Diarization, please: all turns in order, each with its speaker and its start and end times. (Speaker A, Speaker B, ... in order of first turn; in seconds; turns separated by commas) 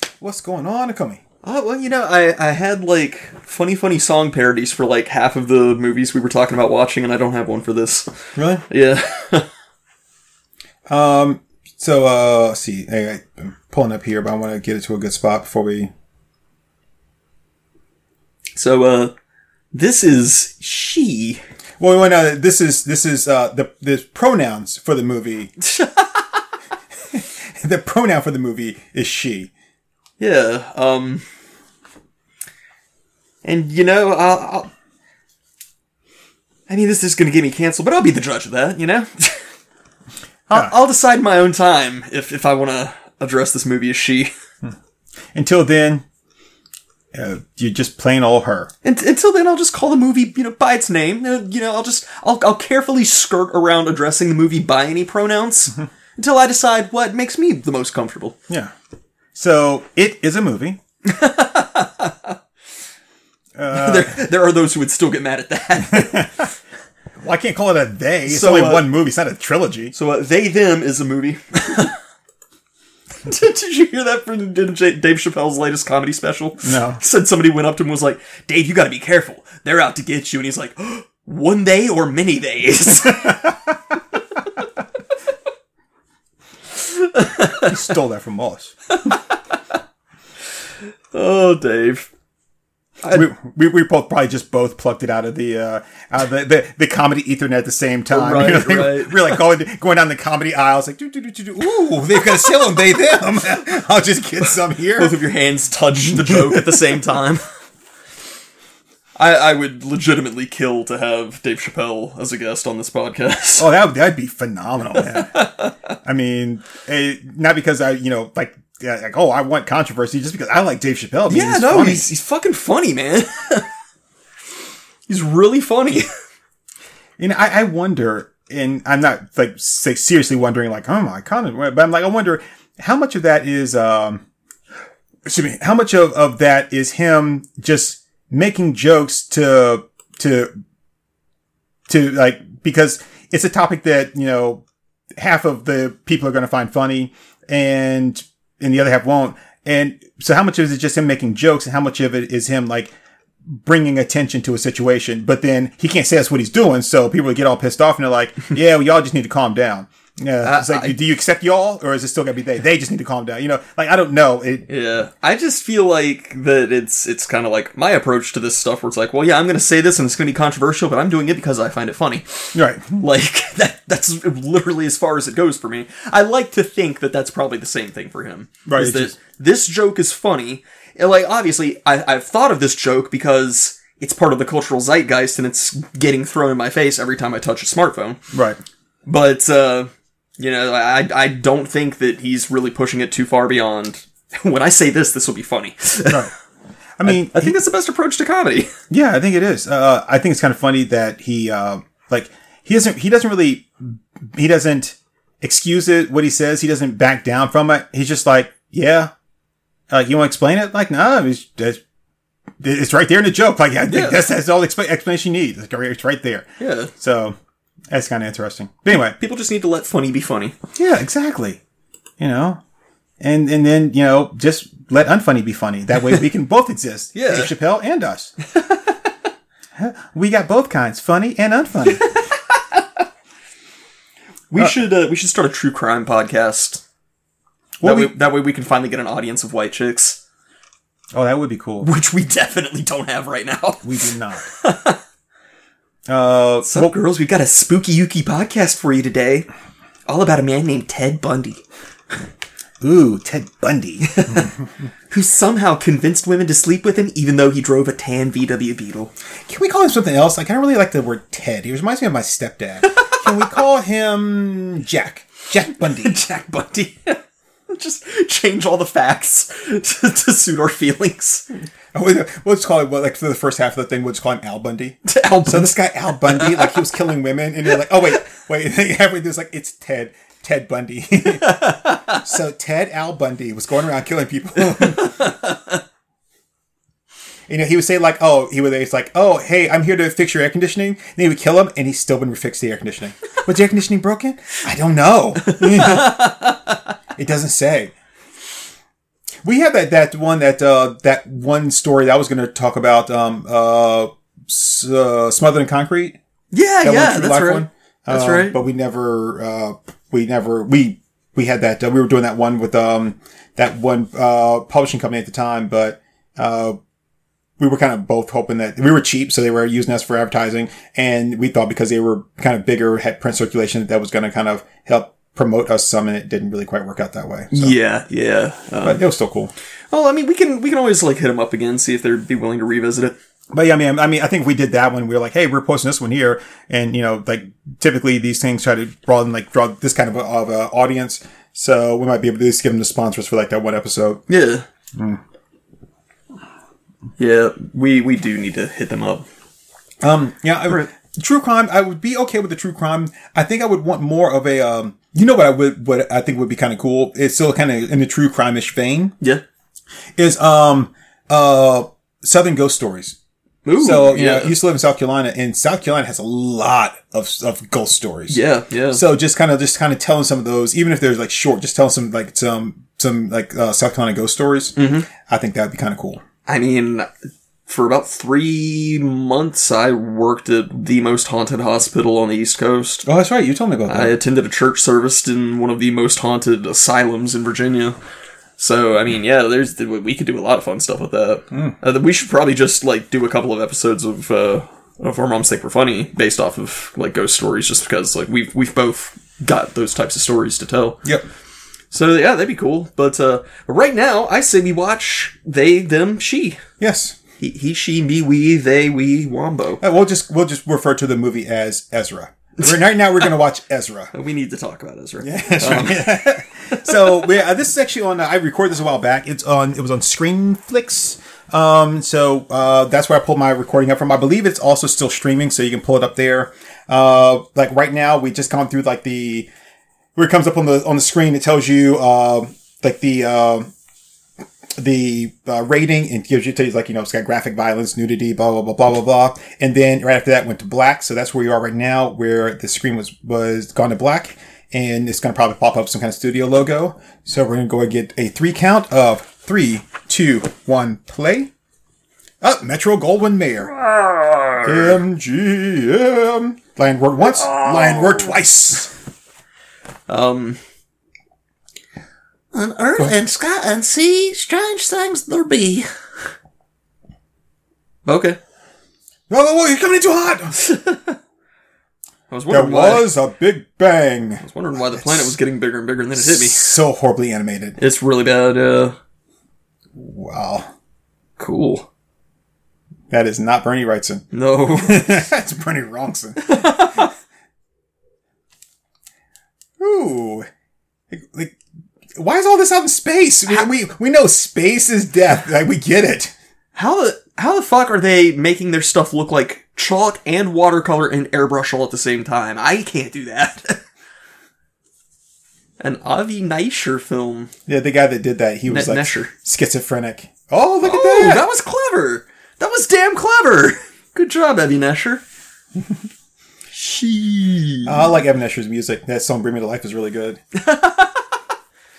Speaker A: 0.2-1.2, Speaker B: 1.4-8.1, Speaker A: 8.3-8.6, Speaker B: 8.7-9.5, Speaker A: 10.9-15.9, Speaker B: 18.5-19.1, Speaker B: 19.7-21.4, Speaker A: 21.8-25.5, Speaker B: 25.6-26.4, Speaker A: 27.1-29.5, Speaker B: 30.2-31.2, Speaker B: 33.4-34.7, Speaker B: 36.7-39.4, Speaker B: 40.5-44.3, Speaker A: 45.3-46.0, Speaker A: 47.1-48.7, Speaker B: 48.8-58.4, Speaker A: 59.3-60.8, Speaker B: 61.0-62.4, Speaker A: 63.5-64.3, Speaker B: 63.7-66.4, Speaker A: 65.9-66.4, Speaker A: 67.2-69.9, Speaker B: 68.3-68.8, Speaker B: 69.9-71.9, Speaker B: 73.2-83.5, Speaker A: 76.6-77.0, Speaker A: 83.2-83.5, Speaker B: 86.7-87.8, Speaker A: 87.5-88.7, Speaker B: 88.9-89.6, Speaker B: 91.1-92.1, Speaker B: 93.0-93.2, Speaker A: 93.1-105.2, Speaker B: 98.1-99.4, Speaker B: 102.2-103.0, Speaker B: 104.4-107.4, Speaker A: 106.1-107.0, Speaker B: 109.2-113.7, Speaker A: 113.6-115.5, Speaker B: 115.0-115.7, Speaker A: 116.0-122.0, Speaker B: 121.3-123.7, Speaker B: 125.1-126.1, Speaker A: 127.2-134.2, Speaker A: 135.2-140.5, Speaker A: 141.9-144.6, Speaker A: 145.2-152.9, Speaker A: 153.4-164.7, Speaker B: 160.4-161.0, Speaker B: 164.7-188.2, Speaker A: 172.5-173.0, Speaker A: 178.7-179.1, Speaker A: 188.3-188.6, Speaker B: 189.1-196.3, Speaker A: 196.1-196.3, Speaker A: 197.0-197.6, Speaker B: 197.0-198.7, Speaker A: 198.9-209.1, Speaker A: 209.9-211.8, Speaker A: 212.6-217.4, Speaker B: 213.9-214.2, Speaker B: 216.6-216.9, Speaker A: 217.9-219.2, Speaker B: 218.9-220.6, Speaker A: 220.7-221.6, Speaker A: 222.2-222.6, Speaker A: 223.2-228.3, Speaker B: 227.1-227.5, Speaker B: 228.5-229.0, Speaker A: 229.8-232.1, Speaker B: 231.9-232.8, Speaker B: 234.5-236.8, Speaker A: 237.8-238.1, Speaker B: 237.8-240.2, Speaker A: 241.1-241.9, Speaker B: 241.8-243.8, Speaker A: 243.8-244.5, Speaker B: 244.5-245.0, Speaker A: 246.1-246.9, Speaker B: 246.7-249.5, Speaker B: 250.1-251.6, Speaker A: 252.8-254.5, Speaker B: 254.1-254.5, Speaker B: 255.1-259.1, Speaker A: 259.4-266.2, Speaker B: 262.8-263.5, Speaker B: 265.8-271.4, Speaker A: 271.9-285.2, Speaker B: 275.1-276.8, Speaker B: 281.3-282.2, Speaker B: 284.6-285.8, Speaker A: 287.5-296.4, Speaker B: 295.4-296.9, Speaker A: 297.2-297.9, Speaker A: 299.4-306.2, Speaker B: 306.5-308.6, Speaker A: 306.8-316.8, Speaker A: 317.6-327.8, Speaker B: 327.5-329.0, Speaker A: 328.8-329.5, Speaker B: 329.9-333.1, Speaker A: 333.5-344.2, Speaker B: 344.3-344.6, Speaker B: 347.2-349.2, Speaker A: 350.0-359.1, Speaker A: 360.2-363.1, Speaker B: 363.6-364.5, Speaker A: 363.8-368.4, Speaker B: 368.3-369.0, Speaker A: 368.9-376.2, Speaker B: 374.8-375.1, Speaker B: 376.4-377.1, Speaker B: 377.7-383.0, Speaker A: 383.1-384.1, Speaker B: 383.9-388.0, Speaker B: 388.6-401.0, Speaker B: 401.9-406.6, Speaker A: 406.8-407.1, Speaker B: 407.4-409.8, Speaker A: 409.8-414.1, Speaker B: 414.1-417.3, Speaker A: 415.2-429.5, Speaker A: 430.1-433.7, Speaker A: 434.8-451.5, Speaker A: 452.4-453.7, Speaker C: 453.9-454.4, Speaker A: 454.6-458.9, Speaker C: 457.4-458.1, Speaker B: 460.1-460.6, Speaker C: 462.5-465.9, Speaker B: 468.0-468.4, Speaker A: 469.3-470.7, Speaker B: 470.7-471.1, Speaker B: 472.3-473.1, Speaker A: 472.5-475.3, Speaker B: 474.4-476.7, Speaker A: 476.1-477.8, Speaker B: 477.8-478.9, Speaker A: 479.9-480.7, Speaker B: 481.4-481.9, Speaker A: 483.1-484.2, Speaker B: 484.3-485.1, Speaker A: 484.8-487.0, Speaker B: 486.4-487.1, Speaker A: 489.8-490.5, Speaker A: 491.1-491.6, Speaker A: 492.1-496.3, Speaker B: 496.7-503.8, Speaker B: 505.8-507.5, Speaker A: 507.7-511.5, Speaker B: 508.7-509.3, Speaker B: 510.8-515.2, Speaker B: 516.7-518.1, Speaker A: 517.8-520.4, Speaker B: 520.5-521.2